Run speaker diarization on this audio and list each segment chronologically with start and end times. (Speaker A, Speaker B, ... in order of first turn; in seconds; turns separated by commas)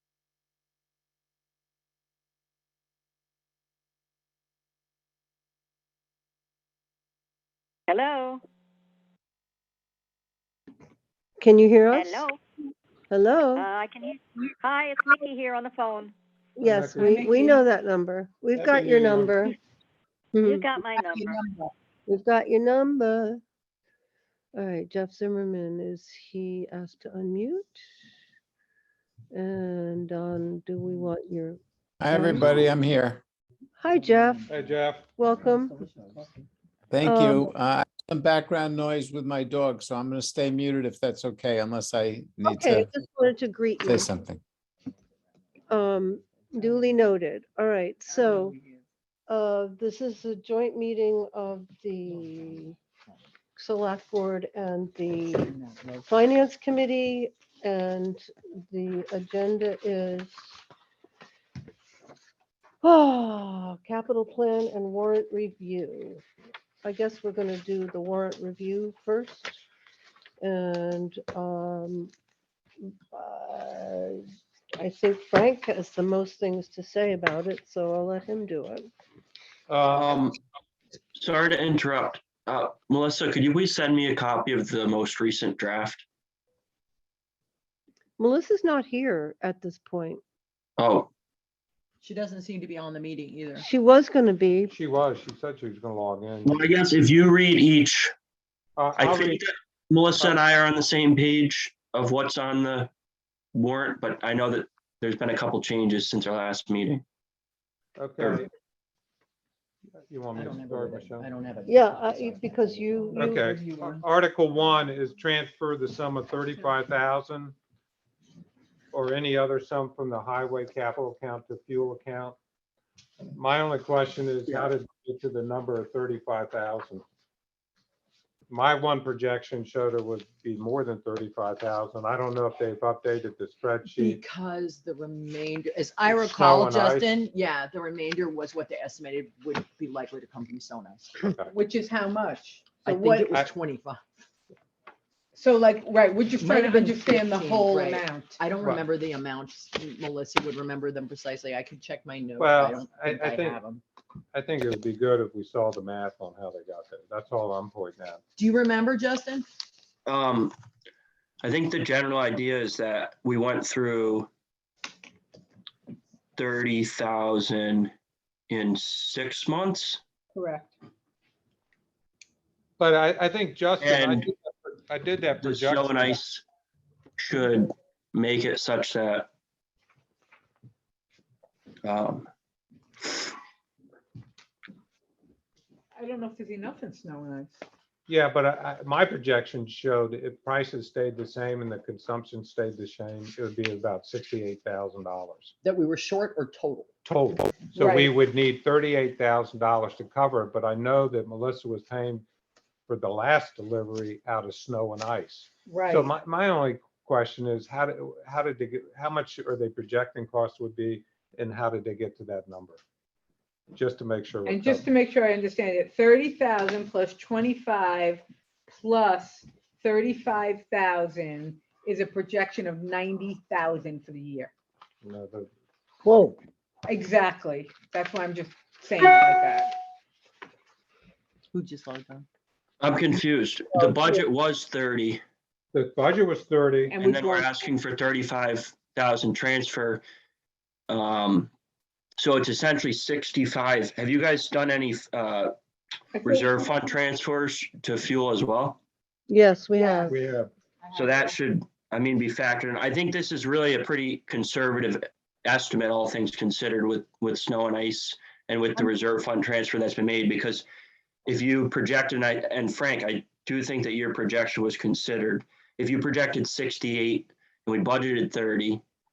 Speaker A: 7.9-8.4, Speaker B: 11.4-12.3, Speaker A: 11.9-12.4, Speaker B: 13.1-13.7, Speaker A: 13.6-16.1, Speaker B: 16.6-19.6, Speaker C: 16.6-17.2, Speaker D: 17.0-17.6, Speaker C: 18.6-19.4, Speaker B: 20.3-20.7, Speaker A: 20.4-21.4, Speaker E: 20.9-21.7, Speaker B: 22.1-23.4, Speaker B: 24.6-27.8, Speaker B: 29.3-32.7, Speaker F: 32.0-33.2, Speaker B: 33.8-34.5, Speaker C: 34.5-35.1, Speaker B: 35.2-35.8, Speaker E: 35.3-36.4, Speaker F: 36.9-42.9, Speaker B: 37.0-37.5, Speaker B: 42.4-44.1, Speaker F: 43.9-44.4, Speaker B: 45.7-48.6, Speaker D: 48.1-48.8, Speaker B: 49.3-52.8, Speaker E: 52.1-52.7, Speaker B: 53.6-55.5, Speaker B: 56.1-60.6, Speaker B: 62.8-66.2, Speaker B: 66.8-69.6, Speaker B: 70.4-72.1, Speaker B: 73.1-74.2, Speaker B: 74.8-78.9, Speaker C: 79.7-80.3, Speaker G: 79.9-80.4, Speaker G: 81.2-86.0, Speaker B: 88.2-90.2, Speaker G: 90.8-91.1, Speaker E: 92.0-93.7, Speaker B: 93.6-94.7, Speaker C: 94.7-96.6, Speaker G: 96.5-98.1, Speaker C: 98.8-99.4, Speaker G: 99.0-102.9, Speaker C: 100.2-100.5, Speaker G: 103.5-107.0, Speaker C: 108.0-108.5, Speaker C: 110.1-111.3, Speaker E: 110.3-114.0, Speaker B: 111.7-113.5, Speaker C: 113.1-117.5, Speaker C: 118.9-122.4, Speaker C: 123.3-127.0, Speaker C: 128.5-134.2, Speaker E: 133.9-141.4, Speaker C: 136.1-137.1, Speaker D: 141.5-143.3, Speaker E: 142.8-144.0, Speaker D: 145.3-148.4, Speaker E: 146.4-153.8, Speaker C: 152.4-153.6, Speaker C: 154.3-158.2, Speaker E: 158.4-159.5, Speaker G: 160.1-160.6, Speaker G: 161.4-164.3, Speaker G: 166.4-167.9, Speaker G: 168.5-170.0, Speaker D: 170.3-170.7, Speaker C: 172.8-176.2, Speaker G: 173.8-174.3, Speaker G: 175.4-176.4, Speaker G: 177.2-179.3, Speaker G: 181.8-182.3, Speaker G: 183.1-183.3, Speaker D: 186.0-187.6, Speaker C: 188.1-195.5, Speaker E: 195.6-196.9, Speaker C: 197.1-202.2, Speaker D: 197.8-198.2, Speaker C: 202.9-212.8, Speaker D: 205.7-206.1, Speaker C: 213.7-214.9, Speaker D: 214.4-224.5, Speaker C: 225.0-225.5, Speaker D: 226.9-229.8, Speaker E: 231.5-232.3, Speaker G: 232.8-235.2, Speaker C: 235.7-237.0, Speaker D: 236.9-237.5, Speaker G: 237.0-240.0, Speaker G: 240.9-241.5, Speaker G: 242.2-245.5, Speaker D: 246.2-246.7, Speaker G: 246.2-248.8, Speaker B: 249.3-250.2, Speaker D: 249.8-250.1, Speaker C: 250.1-250.5, Speaker D: 250.9-251.3, Speaker G: 250.9-260.6, Speaker G: 261.3-268.8